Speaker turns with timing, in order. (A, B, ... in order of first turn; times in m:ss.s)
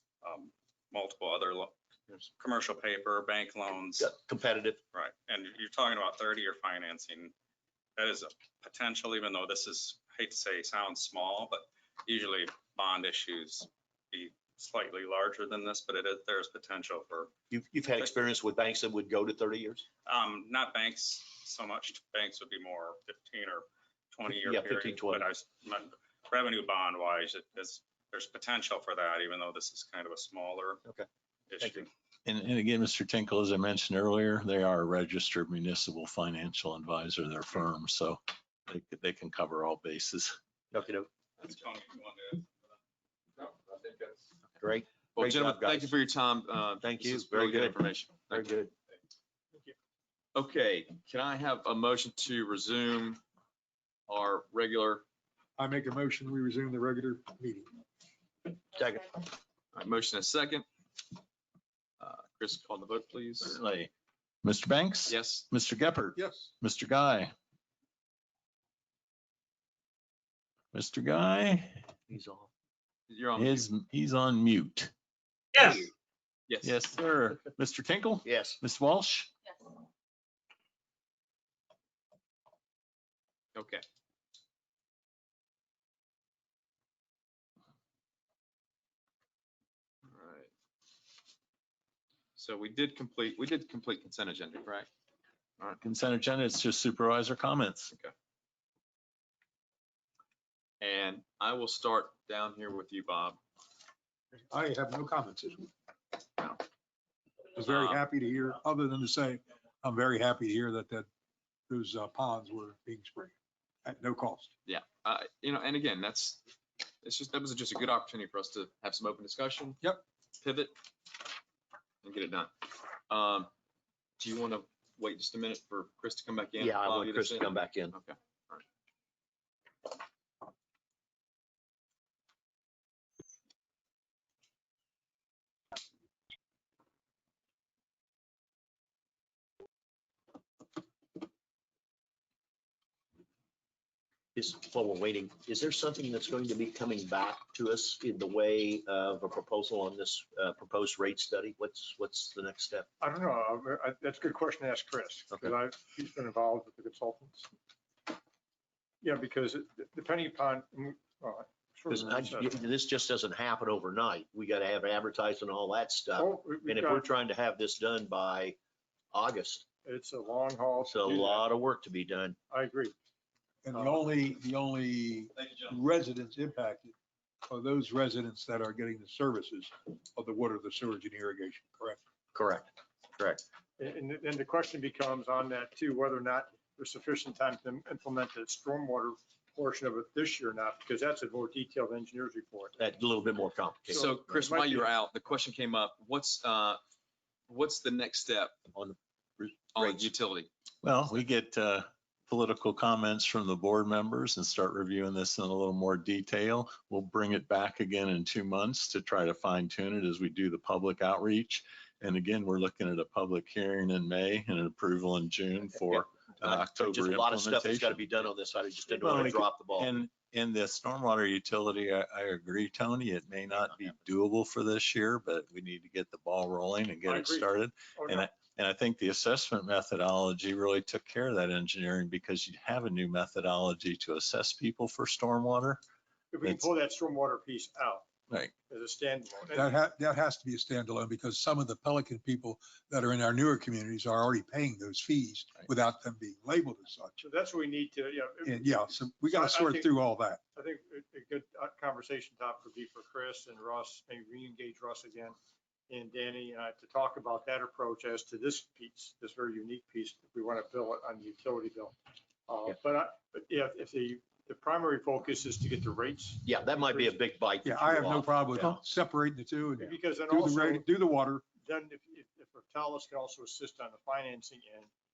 0:00.2-0:01.7 A
0:02.4-0:04.1 A
0:04.0-0:04.8 B
0:04.9-0:07.3 A
0:08.0-0:17.3 A
0:17.5-0:19.8 B
0:20.0-0:30.8 A
0:24.4-0:25.2 B
0:31.5-0:31.9 A
0:31.6-0:31.8 B
0:32.2-0:40.4 C
0:40.7-0:41.1 B
0:41.4-0:42.5 A
0:43.4-0:44.2 D
0:44.6-0:45.9 B
0:45.1-0:48.5 D
0:46.8-0:48.7 B
0:50.3-0:53.2 D
0:54.1-0:55.0 D
0:55.6-0:57.7 E
0:58.7-0:59.2 B
0:59.7-1:00.6 D
1:02.0-1:03.6 D
1:03.4-1:03.9 C
1:04.4-1:07.3 C
1:05.1-1:05.4 D
1:06.2-1:06.5 E
1:10.7-1:11.8 C
1:12.1-1:12.5 B
1:13.1-1:13.6 D
1:13.4-1:14.9 C
1:15.6-1:15.9 B
1:16.5-1:16.8 D
1:16.6-1:19.3 C
1:18.2-1:18.6 B
1:23.5-1:23.8 D
1:30.1-1:30.5 D
1:32.4-1:34.9 D
1:35.8-1:37.9 C
1:40.8-1:43.4 D
1:44.4-1:45.7 E
1:47.5-1:51.1 E
1:47.6-1:48.0 D
1:51.7-1:53.3 E
1:53.8-1:54.5 E
1:54.6-1:56.4 D
1:57.0-1:59.8 D
2:00.4-2:00.7 D
2:02.0-2:02.5 D
2:03.1-2:03.5 D
2:04.2-2:08.6 D
2:06.6-2:08.0 B
2:24.3-2:32.9 B
2:33.0-2:37.5 F
2:39.0-2:42.5 F
2:41.9-2:48.6 B
2:46.2-2:47.1 F
2:49.1-2:49.6 B
2:49.8-2:51.5 F
2:50.8-2:52.4 B
2:52.5-2:52.9 F
2:53.6-2:56.9 E
2:53.7-2:54.0 F
2:57.4-3:02.0 E
3:02.3-3:03.4 B
3:03.8-3:12.8 F
3:12.8-3:14.2 B
3:13.9-3:14.9 F
3:13.9-3:16.8 D
3:17.5-3:18.5 D
3:18.7-3:20.1 B
3:19.7-3:20.5 D
3:20.8-3:38.3 C
3:36.4-3:39.9 B
3:39.0-3:55.8 C
3:47.0-3:48.3 F
3:56.3-3:58.0 F
3:58.7-3:59.7 F
3:59.5-4:07.2 E
4:07.2-4:09.9 F
4:08.4-4:10.4 E
4:10.5-4:15.3 F
4:15.9-4:21.9 F
4:22.5-4:27.1 F
4:26.4-4:28.8 B
4:27.6-4:31.4 E
4:29.8-4:30.8 F
4:31.6-4:34.9 F